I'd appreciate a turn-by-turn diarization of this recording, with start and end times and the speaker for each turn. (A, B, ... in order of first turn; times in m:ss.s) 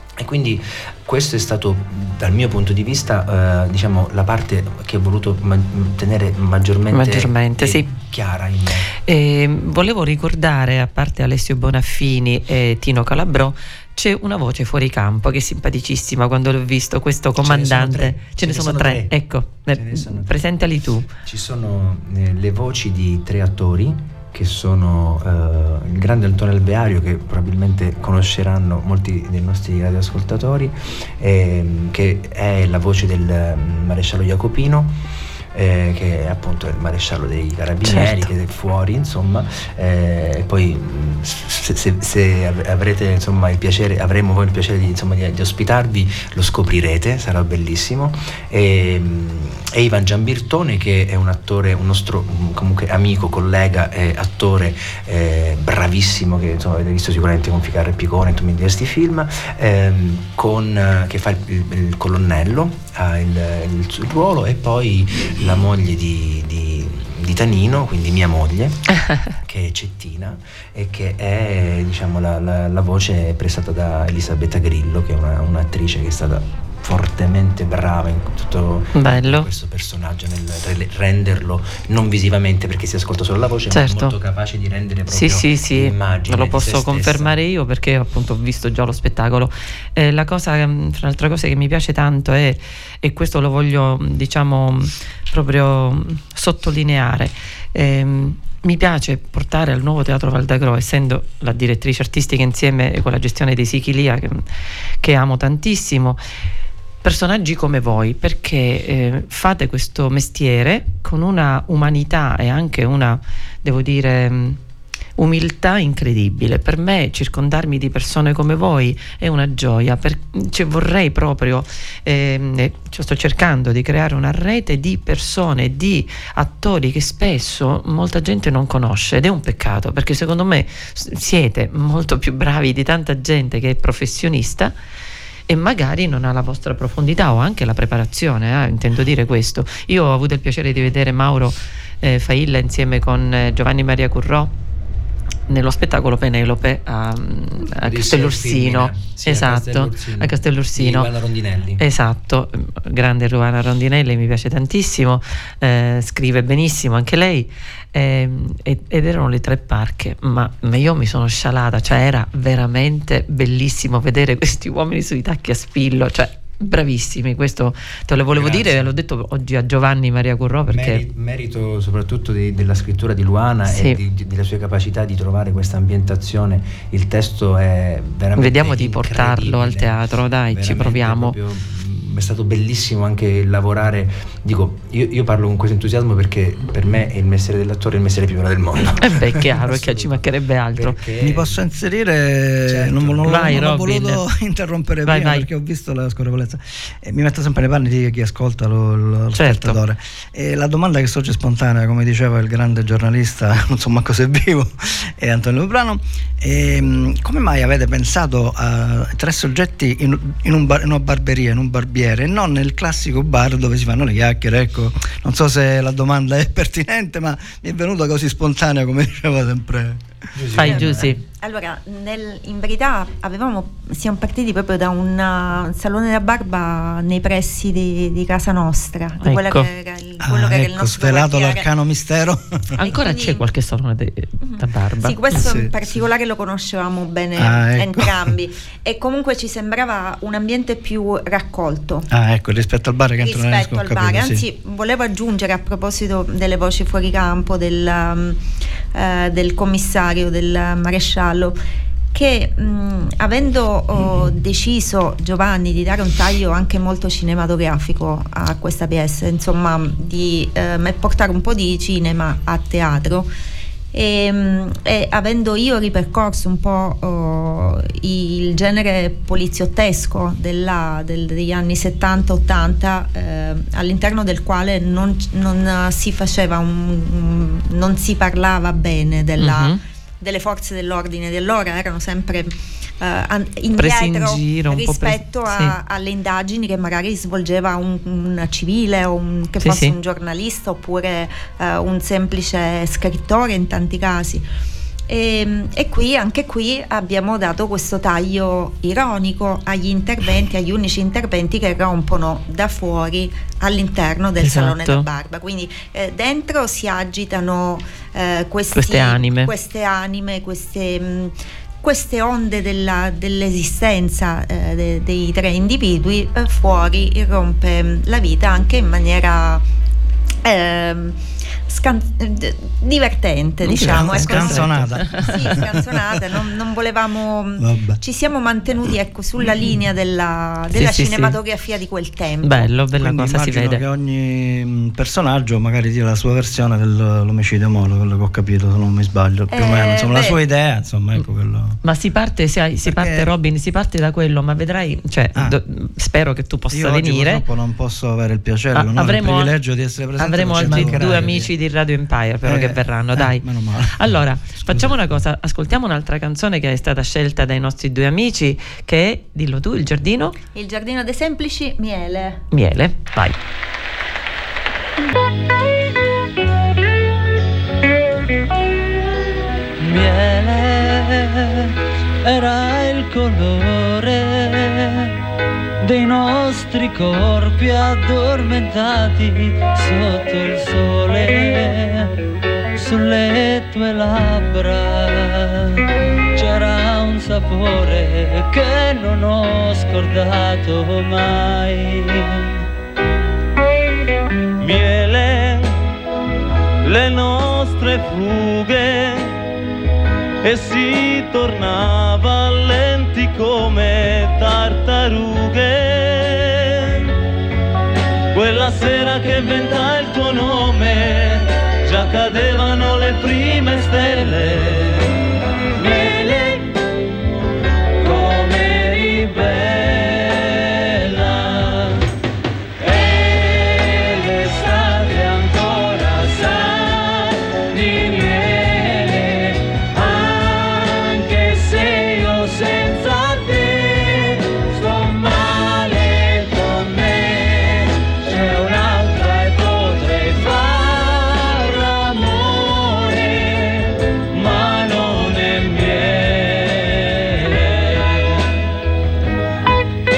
0:00.2-0:08.9 A
0:06.9-0:07.9 B
0:09.0-0:21.1 B
0:17.4-0:19.1 A
0:19.7-0:20.4 A
0:21.2-0:35.0 A
0:35.5-1:27.4 A
0:37.8-0:38.3 B
1:09.0-1:09.3 B
1:19.0-1:19.5 B
1:23.7-1:24.2 B
1:25.1-1:44.5 B
1:45.0-1:46.2 B
1:47.0-1:54.6 B
1:55.2-2:14.7 B
2:15.5-2:24.5 B
2:25.5-2:31.1 B
2:27.8-2:31.8 A
2:31.8-2:51.0 B
2:48.3-2:48.9 A
2:50.7-3:11.6 A
2:53.7-2:54.0 B
2:58.4-3:01.4 B
3:09.0-3:11.0 B
3:11.2-3:40.0 C
3:12.7-3:13.6 A
3:13.3-3:14.2 B
3:15.0-3:15.5 B
3:19.3-3:19.8 B
3:40.3-3:41.2 A
3:40.6-3:41.2 B
3:40.6-3:51.7 D
3:49.2-3:49.7 B
3:50.2-3:52.8 C
3:52.8-3:55.3 B
3:52.8-3:53.4 D
3:54.4-4:02.1 D
3:55.4-3:55.7 C
3:57.4-3:58.3 C
4:02.1-4:04.4 C
4:03.2-4:08.4 D
4:08.9-4:11.6 D
4:12.1-4:23.3 D
4:23.9-4:54.4 D
4:39.4-4:39.8 B
4:43.8-4:45.8 B
4:49.6-4:50.0 B
4:55.1-5:19.6 D
5:04.4-5:05.1 B
5:08.7-5:09.5 B
5:20.4-5:32.7 D
5:23.6-5:25.6 B
5:23.8-5:26.2 C
5:27.6-5:28.0 C
5:30.7-5:31.4 B
5:32.4-5:33.8 B
5:33.0-5:41.8 C
5:39.5-5:40.4 D
5:41.8-5:47.4 B
5:42.8-5:43.3 C
5:46.7-5:51.5 C
5:48.7-5:49.6 B
5:50.2-6:00.4 B
5:50.5-5:51.4 A
5:52.5-5:55.0 C
6:00.5-6:02.4 D
6:02.5-6:03.4 B
6:09.8-6:11.7 E
6:12.2-6:15.1 E
6:15.8-6:22.1 E
6:22.8-6:25.8 E
6:26.4-6:32.6 E
6:34.6-6:35.7 E
6:36.8-6:39.3 E
6:40.4-6:47.0 E
6:48.3-6:55.1 E
6:55.8-6:56.7 E
6:58.0-7:02.0 E
7:02.8-7:28.5 E